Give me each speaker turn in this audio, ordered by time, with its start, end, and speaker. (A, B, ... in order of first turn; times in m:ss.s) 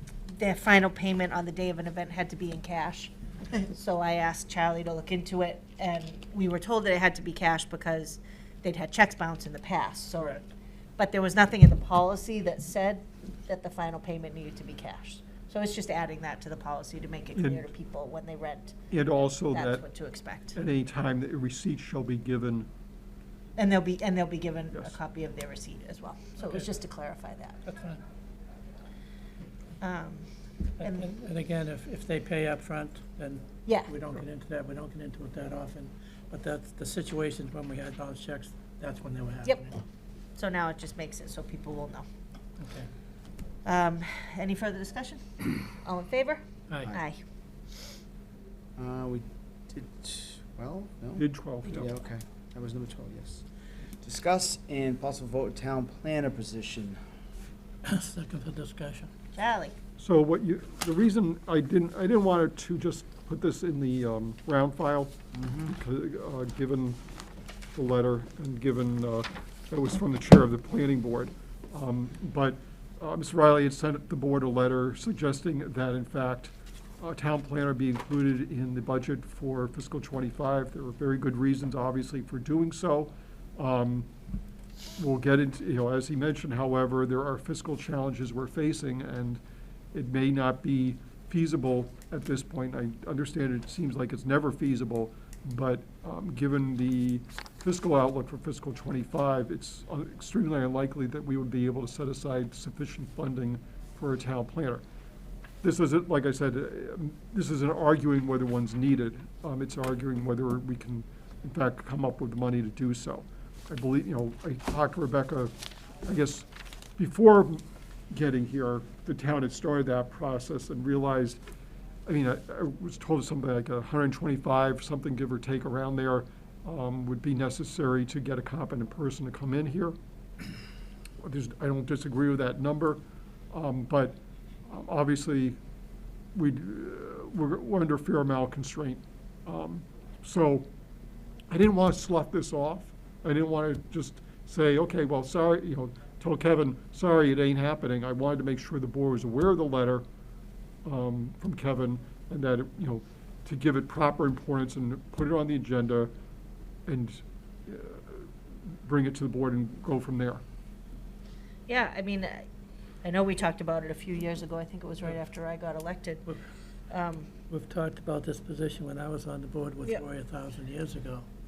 0:00.3-0:10.5 A
0:11.0-0:18.8 A
0:17.4-0:17.7 B
0:18.9-0:19.8 B
0:19.5-0:20.6 A
0:20.5-0:22.7 B
0:23.6-0:27.6 A
0:24.7-0:25.0 B
0:27.6-0:28.0 C
0:29.8-0:30.3 A
0:30.8-0:31.1 A
0:30.8-0:39.8 C
0:33.6-0:33.9 A
0:40.4-0:42.1 A
0:42.6-0:42.9 C
0:43.6-0:47.2 A
0:48.8-0:53.4 D
0:51.2-0:51.9 B
0:54.0-0:57.0 D
0:57.8-0:59.1 C
0:59.4-0:59.8 A
1:00.0-1:05.2 B
1:05.3-1:05.8 D
1:05.7-1:07.0 B
1:07.7-1:24.1 B
1:25.0-1:29.4 B
1:29.9-1:44.8 B
1:45.6-1:55.5 B
1:56.0-2:01.4 B
2:02.1-2:10.0 B
2:11.2-2:15.6 B
2:16.3-2:20.7 B
2:21.5-2:30.0 B
2:30.8-2:36.1 B
2:36.9-2:38.3 B
2:38.8-2:40.4 B
2:41.7-2:42.4 A
2:43.0-2:46.2 A
2:46.9-2:47.3 A
2:47.5-2:51.3 C